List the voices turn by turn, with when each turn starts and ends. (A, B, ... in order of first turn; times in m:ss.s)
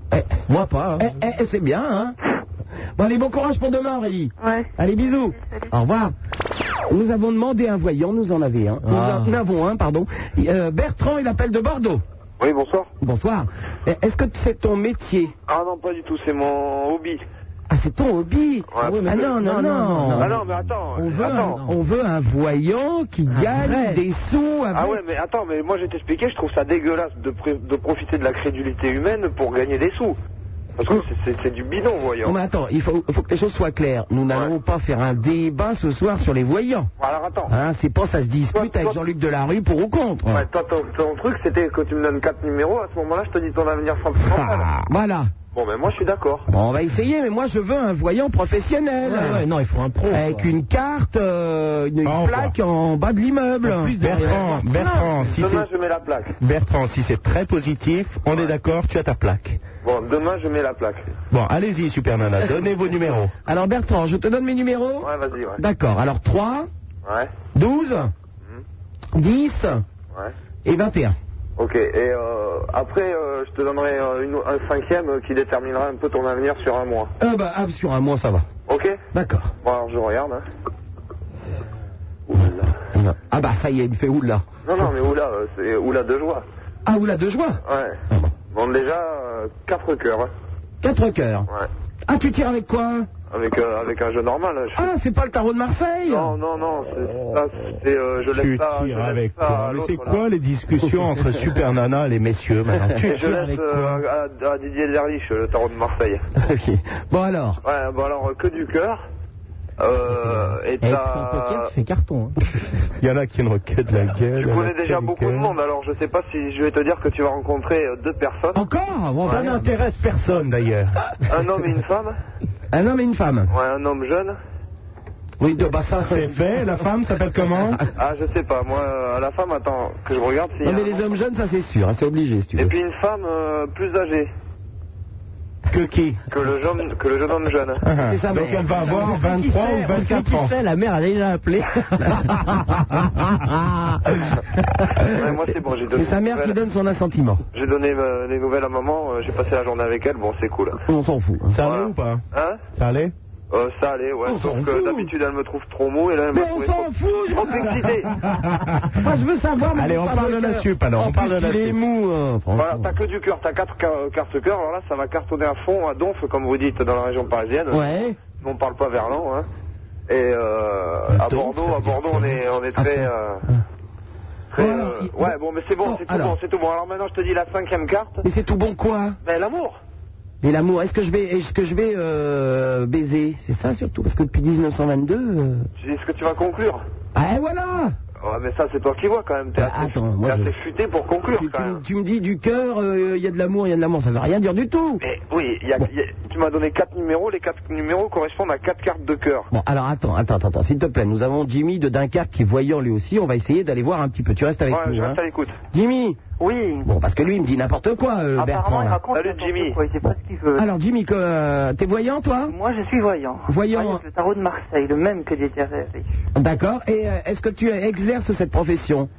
0:00.1-0:00.4 A
0:00.5-0:01.1 B
0:01.0-0:02.2 A
0:03.0-0:06.1 A
0:06.9-0:12.0 A
0:08.8-0:09.4 B
0:12.4-0:12.9 C
0:13.0-0:15.3 A
0:15.5-0:17.2 C
0:17.7-0:25.0 A
0:18.8-0:19.2 C
0:18.8-0:20.5 B
0:20.2-0:21.6 C
0:21.2-0:21.7 B
0:23.3-0:24.0 B
0:24.7-0:30.2 C
0:30.8-0:32.4 C
0:32.2-0:36.9 A
0:37.0-0:37.5 C
0:37.5-0:40.4 A
0:38.5-0:39.0 C
0:40.3-0:44.7 C
0:44.8-0:45.3 A
0:45.5-0:46.5 C
0:46.5-0:49.4 A
0:49.0-0:50.5 B
0:50.1-0:54.3 A
0:52.0-0:52.5 D
0:53.6-0:55.1 B
0:53.9-0:55.7 D
0:55.3-0:56.4 C
0:56.4-0:59.6 D
0:59.8-1:01.1 C
1:01.3-1:03.3 D
1:03.5-1:06.7 A
1:05.0-1:05.6 C
1:07.0-1:07.3 C
1:07.6-1:08.1 A
1:09.2-1:09.8 A
1:10.6-1:11.2 A
1:11.6-1:17.1 C
1:17.2-1:18.5 A
1:18.7-1:19.0 C
1:19.1-1:19.5 A
1:19.6-1:20.4 C
1:22.3-1:24.4 A
1:24.6-1:26.4 C
1:26.8-1:28.3 A
1:27.6-1:28.0 C
1:28.5-1:30.3 C
1:30.8-1:31.5 A
1:32.1-1:33.1 A
1:33.3-1:34.9 C
1:34.8-1:36.4 A
1:36.1-1:40.2 C
1:38.3-1:44.0 D
1:43.0-1:46.2 C
1:46.4-1:47.6 A
1:47.6-1:49.0 C
1:49.8-1:51.7 C
1:50.0-1:52.4 B
1:53.0-1:55.5 D
1:54.4-1:58.6 C
1:58.6-1:59.7 A
1:59.2-2:01.0 D
2:01.3-2:02.2 C
2:02.7-2:03.5 A
2:03.5-2:04.4 C
2:05.4-2:06.3 A
2:06.0-2:07.8 D
2:08.0-2:11.1 C
2:10.6-2:12.7 A
2:12.6-2:14.3 C
2:15.7-2:16.2 D
2:16.3-2:17.8 C
2:17.8-2:20.5 D
2:18.0-2:19.7 A
2:19.0-2:23.0 B
2:25.1-2:26.6 C
2:25.9-2:27.4 A
2:27.5-2:30.8 C
2:30.9-2:31.6 A
2:31.5-2:32.2 D
2:31.6-2:32.6 C
2:32.8-2:33.1 D
2:33.5-2:38.1 C
2:34.2-2:35.1 A
2:36.3-2:37.9 A
2:38.9-2:42.9 A
2:39.8-2:41.8 D
2:42.6-2:49.5 C
2:47.7-2:48.2 A
2:50.1-2:53.4 C
2:51.1-2:52.4 D
2:54.5-2:58.2 C
2:54.6-2:56.4 A
2:58.2-2:59.2 A
2:59.2-2:59.8 C
3:00.4-3:05.7 A
3:05.8-3:06.8 C
3:07.2-3:08.0 A
3:08.2-3:11.8 C
3:09.6-3:10.5 A
3:11.3-3:15.0 A
3:15.0-3:19.5 C
3:19.5-3:25.2 A
3:24.7-3:25.6 C
3:25.7-3:26.2 A
3:26.4-3:26.9 E
3:26.8-3:29.0 A
3:28.4-3:30.7 E
3:29.1-3:29.8 C
3:30.0-3:32.5 A
3:32.5-3:36.1 E
3:33.5-3:34.0 A
3:36.4-3:39.1 A